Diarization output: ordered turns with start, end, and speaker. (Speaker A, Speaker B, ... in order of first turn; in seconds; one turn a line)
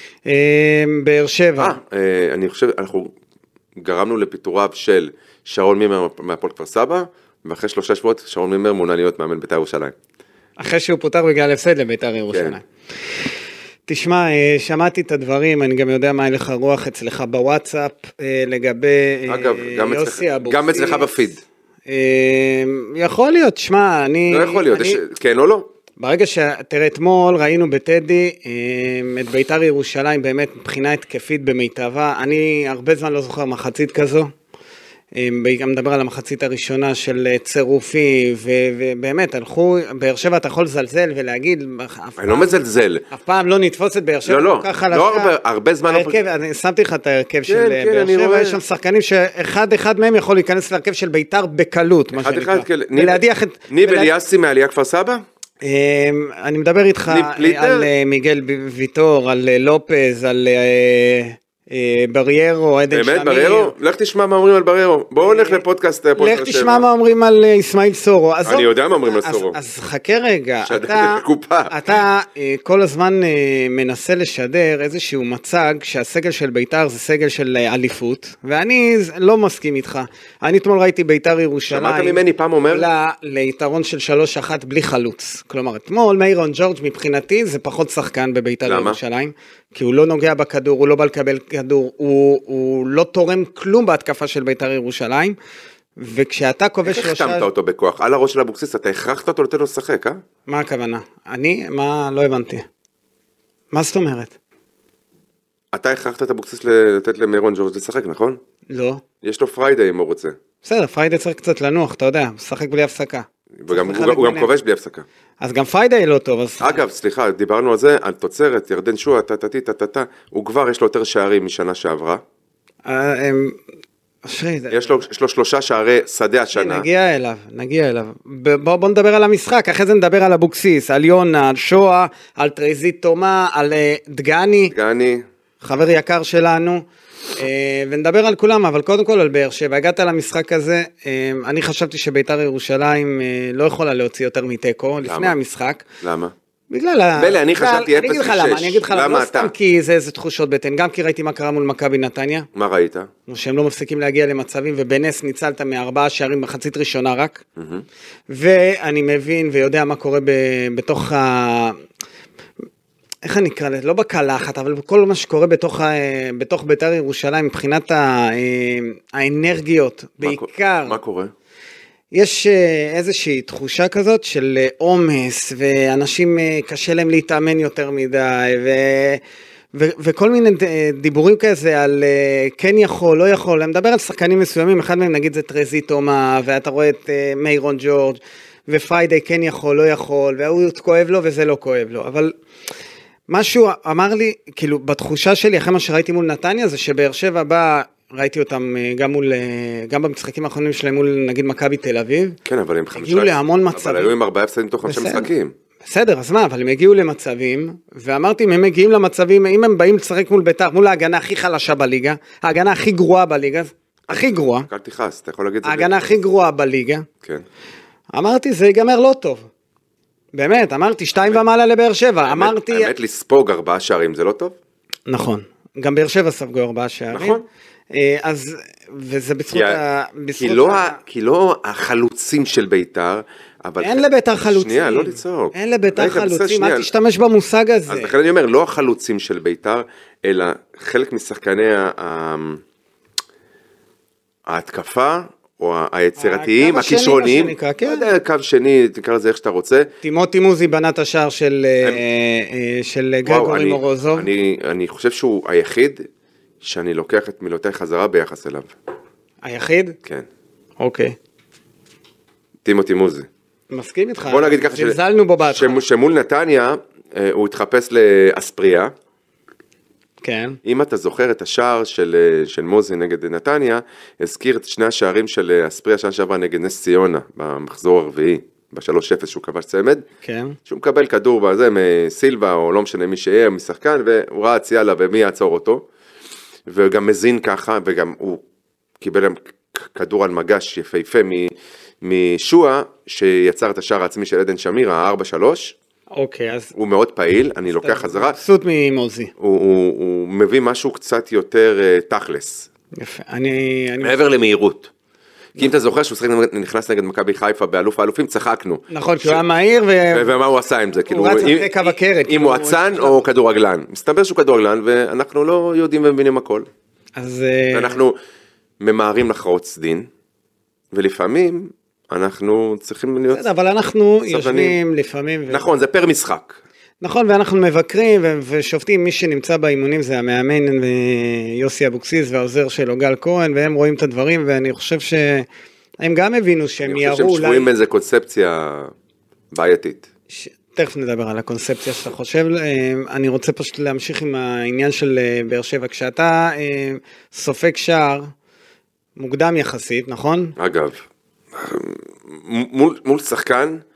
Speaker A: 0.3-1.8
Speaker B: 1.6-3.1
Speaker B: 3.8-9.9
Speaker A: 10.6-12.6
Speaker B: 12.3-12.6
Speaker A: 13.9-21.2
Speaker B: 19.3-21.4
Speaker A: 21.9-25.0
Speaker B: 24.3-25.7
Speaker A: 26.0-34.3
Speaker A: 35.1-42.6
Speaker B: 42.2-43.0
Speaker A: 43.1-45.3
Speaker B: 44.3-46.2
Speaker A: 45.9-54.1
Speaker B: 47.5-48.6
Speaker B: 52.1-55.2
Speaker A: 55.6-63.7
Speaker B: 57.1-57.9
Speaker B: 62.9-66.8
Speaker A: 65.2-65.6
Speaker A: 66.2-95.3
Speaker B: 68.5-69.6
Speaker B: 70.6-72.0
Speaker B: 81.7-82.9
Speaker B: 88.6-89.0
Speaker A: 96.0-97.5
Speaker B: 96.8-100.2
Speaker A: 100.5-102.6
Speaker A: 103.7-104.3
Speaker B: 105.7-108.4
Speaker A: 108.7-109.0
Speaker B: 109.2-110.3
Speaker A: 110.6-114.5
Speaker B: 113.6-115.0
Speaker A: 115.4-116.8
Speaker B: 116.6-122.2
Speaker A: 122.8-123.6
Speaker A: 124.2-125.0
Speaker B: 124.7-126.8
Speaker A: 126.5-134.7
Speaker B: 134.7-135.2
Speaker A: 135.6-136.8
Speaker A: 137.3-145.8
Speaker B: 145.0-145.3
Speaker B: 146.0-146.3
Speaker A: 146.7-152.5
Speaker B: 147.2-149.5
Speaker B: 152.5-153.1
Speaker A: 153.3-157.4
Speaker B: 157.6-157.8
Speaker A: 158.3-161.8
Speaker A: 163.2-171.0
Speaker B: 170.2-171.3
Speaker A: 172.1-179.2
Speaker A: 179.7-192.3
Speaker A: 193.3-202.4
Speaker B: 202.4-205.5
Speaker A: 202.9-204.1
Speaker A: 204.8-205.3
Speaker A: 205.8-214.7
Speaker B: 214.1-216.2
Speaker A: 215.6-217.1
Speaker A: 218.1-219.5
Speaker A: 220.3-222.9
Speaker B: 222.2-224.5
Speaker A: 225.1-227.4
Speaker B: 227.1-227.4
Speaker A: 227.9-231.0
Speaker B: 229.5-229.8
Speaker B: 230.4-236.9
Speaker A: 233.8-238.1
Speaker B: 237.9-242.6
Speaker B: 244.5-249.9
Speaker A: 246.2-248.1
Speaker A: 250.0-254.3
Speaker B: 253.2-256.0
Speaker B: 256.6-258.7
Speaker A: 259.4-260.0
Speaker A: 260.8-261.1
Speaker B: 262.6-263.3
Speaker A: 263.7-265.8
Speaker B: 264.3-265.0
Speaker B: 265.5-268.9
Speaker A: 270.2-270.6
Speaker B: 270.6-280.0
Speaker A: 280.2-280.6
Speaker B: 280.6-285.9
Speaker B: 286.7-288.4
Speaker B: 289.0-295.8
Speaker A: 296.1-296.7
Speaker B: 296.7-298.4
Speaker A: 297.8-299.3
Speaker B: 299.4-302.7
Speaker A: 302.9-304.2
Speaker B: 304.0-304.9
Speaker B: 305.6-309.4
Speaker A: 308.9-310.3
Speaker B: 310.1-316.7
Speaker A: 311.1-313.2
Speaker A: 317.2-318.0
Speaker B: 317.7-318.2
Speaker B: 318.8-320.1
Speaker B: 320.9-323.4
Speaker A: 323.3-325.6
Speaker B: 324.3-324.8
Speaker B: 325.5-326.6
Speaker A: 327.0-335.4
Speaker A: 336.0-337.7
Speaker B: 336.8-338.9
Speaker B: 339.5-340.1
Speaker A: 340.3-348.3
Speaker A: 349.2-350.6
Speaker B: 350.6-351.0
Speaker B: 351.5-353.8